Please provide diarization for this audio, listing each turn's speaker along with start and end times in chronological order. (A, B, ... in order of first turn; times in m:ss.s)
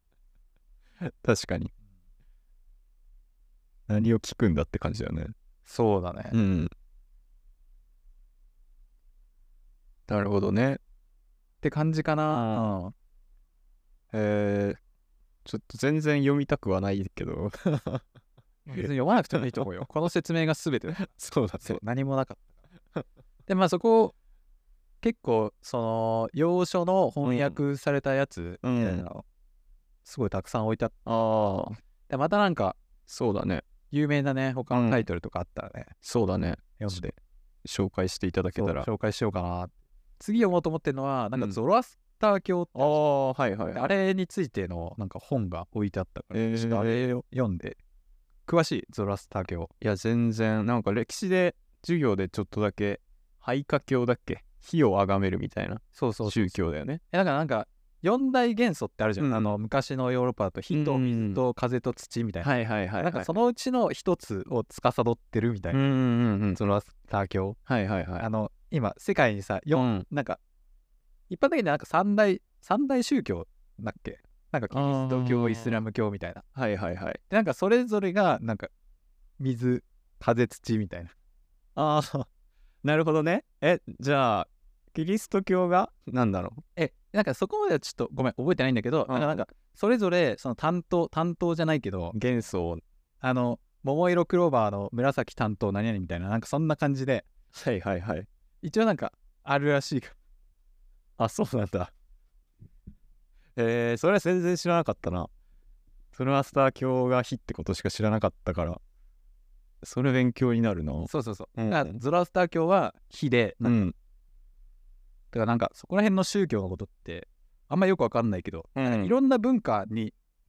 0:01.0-0:01.7 A
0:03.9-0:05.3 A
0:05.6-0:06.3 B
0:06.3-0:06.7 A
0:10.1-0:10.8 A
0:11.6-0:12.9 B
0:12.3-0:12.6 A
0:14.1-0:14.8 A
0:15.4-0:18.0 A
0:18.6-0:22.5 B
0:20.9-0:21.8 A
0:23.5-0:24.1 B
0:25.0-0:29.2 B
0:27.2-0:27.6 A
0:28.6-0:29.0 A
0:30.0-0:30.9 B
0:31.0-0:31.8 A
0:32.1-0:32.8 B
0:33.1-0:33.6 A
0:33.9-0:35.9 B
0:34.7-0:35.0 A
0:36.0-0:38.9 A
0:36.8-0:37.1 B
0:38.6-0:43.0 B
0:42.7-0:43.8 A
0:43.7-0:47.8 B
0:46.3-0:47.2 A
0:48.5-0:49.7 B
0:49.8-0:57.0 A
0:55.9-0:56.5 B
0:57.1-1:02.5 B
0:59.2-0:59.4 A
1:00.7-1:01.4 A
1:02.4-1:03.3 A
1:03.0-1:05.8 B
1:05.7-1:06.6 A
1:06.6-1:07.6 B
1:07.7-1:08.2 A
1:08.2-1:10.4 B
1:09.7-1:10.0 A
1:11.3-1:16.4 B
1:14.7-1:15.8 A
1:16.5-1:17.2 A
1:17.3-1:18.7 B
1:19.4-1:21.1 B
1:21.8-1:22.3 A
1:22.8-1:26.6 A
1:26.8-1:32.1 B
1:29.1-1:29.5 A
1:32.1-1:32.8 A
1:33.2-1:37.2 B
1:37.5-1:38.3 A
1:38.6-1:40.2 B
1:41.2-1:41.9 A
1:43.6-1:45.3 A
1:46.1-1:48.8 A
1:49.8-1:52.0 A
1:51.1-1:53.7 B
1:53.6-1:53.9 A
1:55.3-2:00.1 B
1:58.7-1:59.1 A